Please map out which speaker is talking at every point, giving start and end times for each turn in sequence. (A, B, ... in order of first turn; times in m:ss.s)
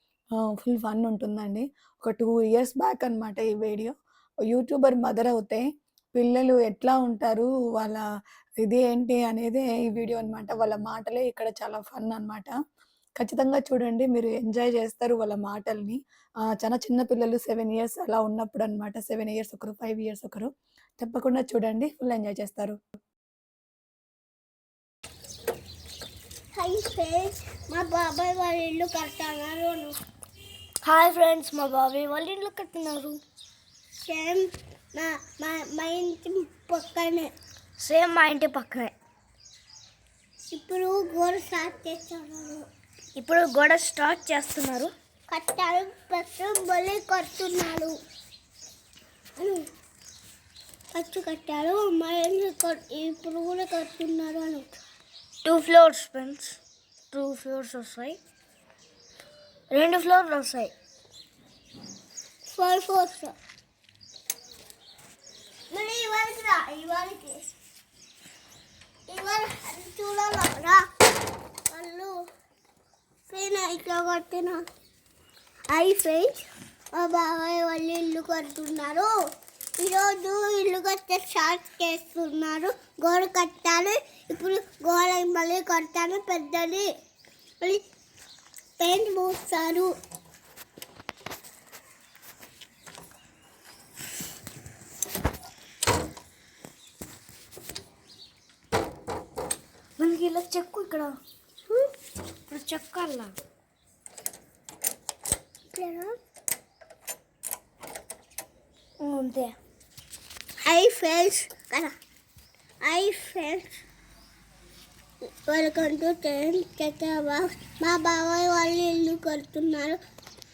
0:00.4-0:03.9 A
0:04.5-0:08.0 A
0:08.6-0:12.5 A
0:13.2-0:22.8 A
0:26.5-0:29.9 B
0:30.8-0:33.2 C
0:34.0-0:37.3 B
0:37.8-0:38.9 C
0:40.5-0:42.7 B
0:43.2-0:44.9 C
0:45.3-0:48.0 B
0:49.4-0:49.7 B
0:50.9-0:54.7 B
0:55.4-0:56.6 C
0:57.1-0:58.2 C
0:59.7-1:00.7 C
1:02.5-1:03.3 B
1:05.7-1:07.5 B
1:09.1-1:10.8 B
1:11.7-1:12.1 B
1:13.3-1:14.6 B
1:15.7-1:16.3 B
1:16.9-1:19.1 B
1:19.8-1:26.9 B
1:28.8-1:29.9 B
1:40.0-1:41.1 C
1:42.5-1:43.3 C
1:45.7-1:46.2 B
1:49.0-1:49.6 C
1:50.6-1:51.9 B
1:52.8-1:53.8 B
1:55.5-2:00.0 B